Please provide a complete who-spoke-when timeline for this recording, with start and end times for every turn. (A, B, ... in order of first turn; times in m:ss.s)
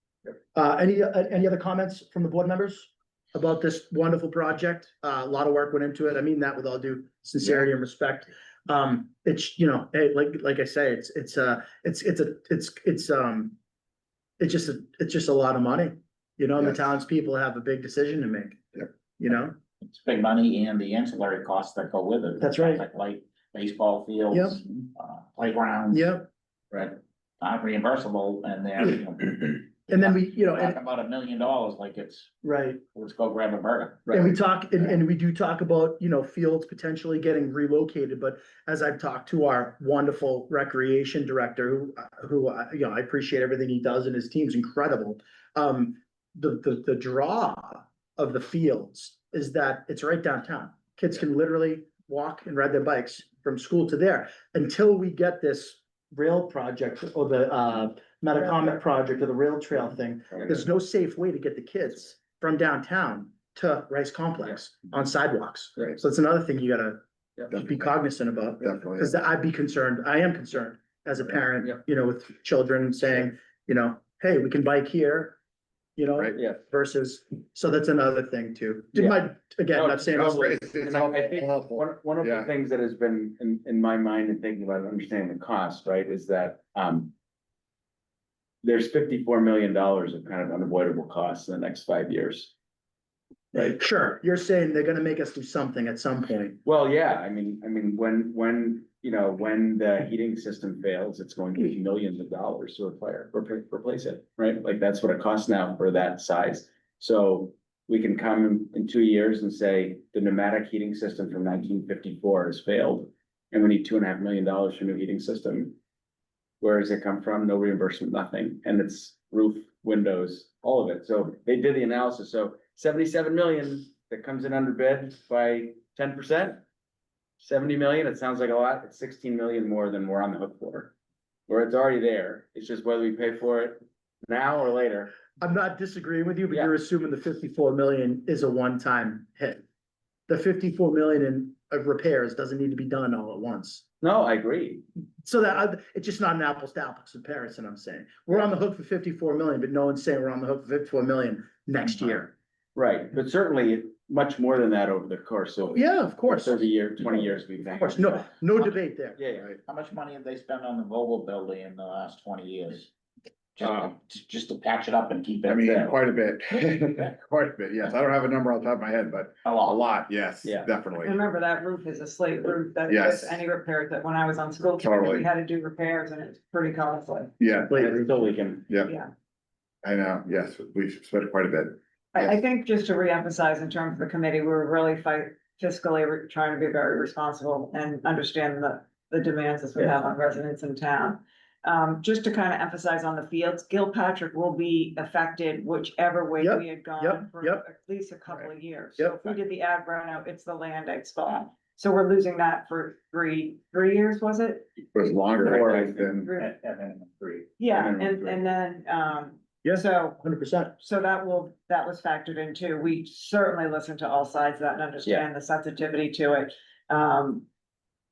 0:00.5-0:13.6 A
0:14.4-0:19.6 A
0:19.8-0:26.1 B
0:22.4-0:22.8 A
0:24.3-0:24.6 A
0:25.9-0:26.3 A
0:26.7-0:32.3 B
0:29.9-0:30.8 A
0:32.4-0:32.8 A
0:32.9-0:35.0 B
0:34.1-1:07.0 A
1:07.5-1:15.4 A
1:08.6-1:09.1 C
1:16.0-1:20.6 A
1:16.4-1:16.6 D
1:19.7-1:27.1 D
1:20.2-1:22.5 C
1:28.6-1:32.5 D
1:33.5-1:36.6 A
1:36.6-1:55.8 D
1:56.6-2:06.6 D
2:07.4-2:10.9 D
2:11.5-2:15.2 D
2:15.4-2:19.6 A
2:20.3-2:23.9 A
2:24.0-2:24.8 D
2:25.2-2:32.3 A
2:32.8-2:39.5 D
2:35.7-2:36.6 A
2:37.6-2:39.2 A
2:39.7-2:42.9 B
2:43.6-2:46.0 B
2:45.5-2:51.2 C
2:49.5-2:49.8 B
2:51.1-2:57.4 E
2:52.9-2:53.4 C
2:54.8-2:55.3 C
2:57.4-2:57.9 C
2:57.7-2:58.7 D
2:59.8-3:02.4 C
3:02.2-3:24.7 E
3:16.4-3:17.6 A
3:19.0-3:19.4 A
3:24.9-3:26.3 C
3:25.4-3:26.3 D
3:26.3-3:27.5 B
3:27.6-3:37.5 E
3:27.7-3:28.4 D
3:29.6-3:30.7 A